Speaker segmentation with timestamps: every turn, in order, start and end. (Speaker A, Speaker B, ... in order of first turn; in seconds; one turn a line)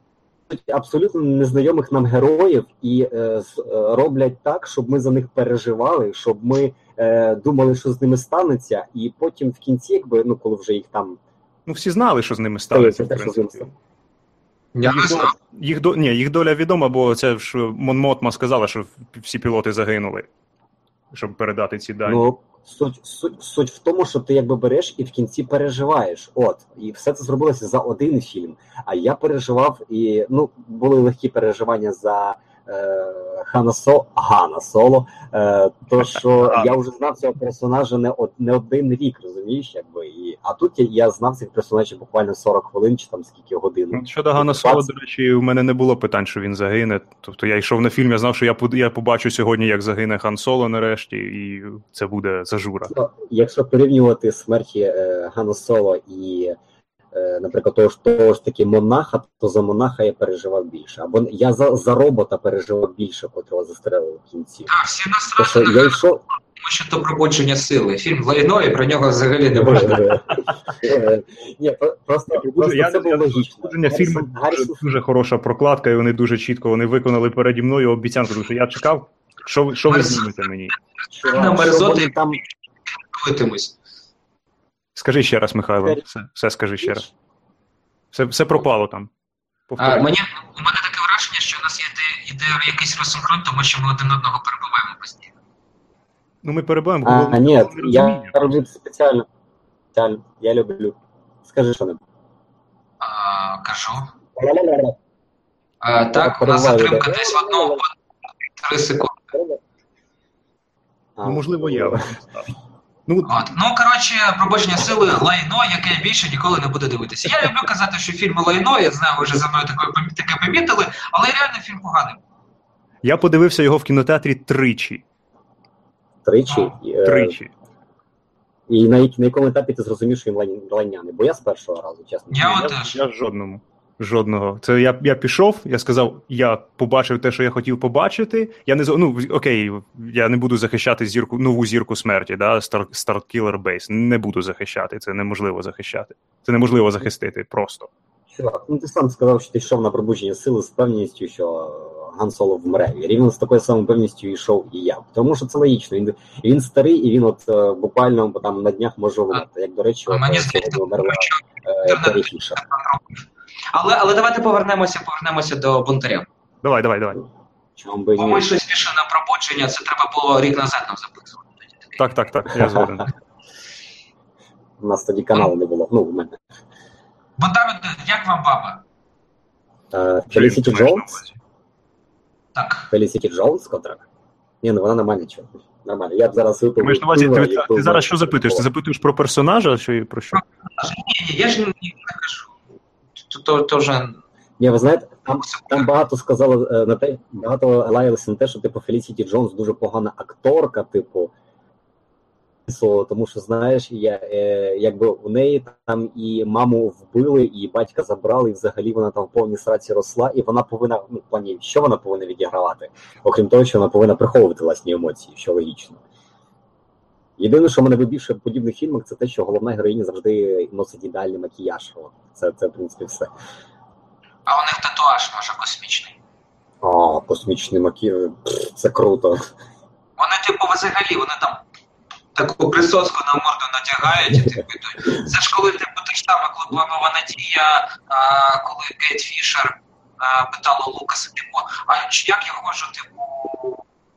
Speaker A: 0.5-11.2
Speaker B: 11.7-13.7
Speaker A: 12.7-13.7
Speaker C: 14.7-15.3
Speaker B: 14.8-20.3
Speaker B: 21.1-22.3
Speaker A: 22.1-44.9
Speaker B: 36.0-36.7
Speaker B: 43.9-52.9
Speaker A: 52.9-56.6
Speaker A: 57.1-64.7
Speaker C: 64.7-66.0
Speaker A: 65.4-66.2
Speaker C: 66.5-70.1
Speaker A: 69.5-74.9
Speaker B: 69.6-70.5
Speaker B: 72.3-80.7
Speaker C: 79.9-80.3
Speaker A: 81.1-82.4
Speaker C: 81.3-82.4
Speaker C: 83.1-83.8
Speaker B: 84.9-87.1
Speaker B: 88.1-89.1
Speaker B: 89.7-90.1
Speaker C: 89.8-95.3
Speaker B: 96.4-98.6
Speaker A: 97.0-99.2
Speaker A: 99.9-102.0
Speaker C: 103.0-104.1
Speaker A: 104.3-105.0
Speaker C: 105.8-107.9
Speaker A: 106.1-107.8
Speaker C: 108.5-109.3
Speaker A: 109.3-109.6
Speaker A: 111.2-112.0
Speaker B: 111.2-112.5
Speaker B: 113.1-113.5
Speaker C: 113.3-122.2
Speaker B: 123.0-125.0
Speaker A: 126.2-127.3
Speaker C: 126.5-126.8
Speaker B: 127.0-127.5
Speaker A: 128.7-132.6
Speaker C: 132.3-133.0
Speaker B: 132.3-147.9
Speaker A: 148.3-162.6
Speaker C: 160.1-166.3
Speaker B: 166.6-167.2
Speaker A: 167.8-168.5
Speaker C: 168.2-171.9
Speaker B: 172.0-173.1
Speaker A: 172.5-172.8
Speaker A: 174.8-176.4
Speaker C: 177.4-178.8
Speaker A: 179.9-181.2
Speaker B: 180.3-181.4
Speaker C: 182.6-182.9
Speaker A: 182.9-184.1
Speaker A: 184.6-188.7
Speaker B: 186.8-190.4
Speaker C: 190.3-192.5
Speaker C: 193.3-194.2
Speaker A: 194.6-201.3
Speaker C: 195.4-195.9
Speaker A: 202.7-216.0
Speaker A: 217.4-223.3
Speaker C: 224.4-226.2
Speaker A: 226.8-229.5
Speaker C: 230.2-231.6
Speaker C: 232.3-243.8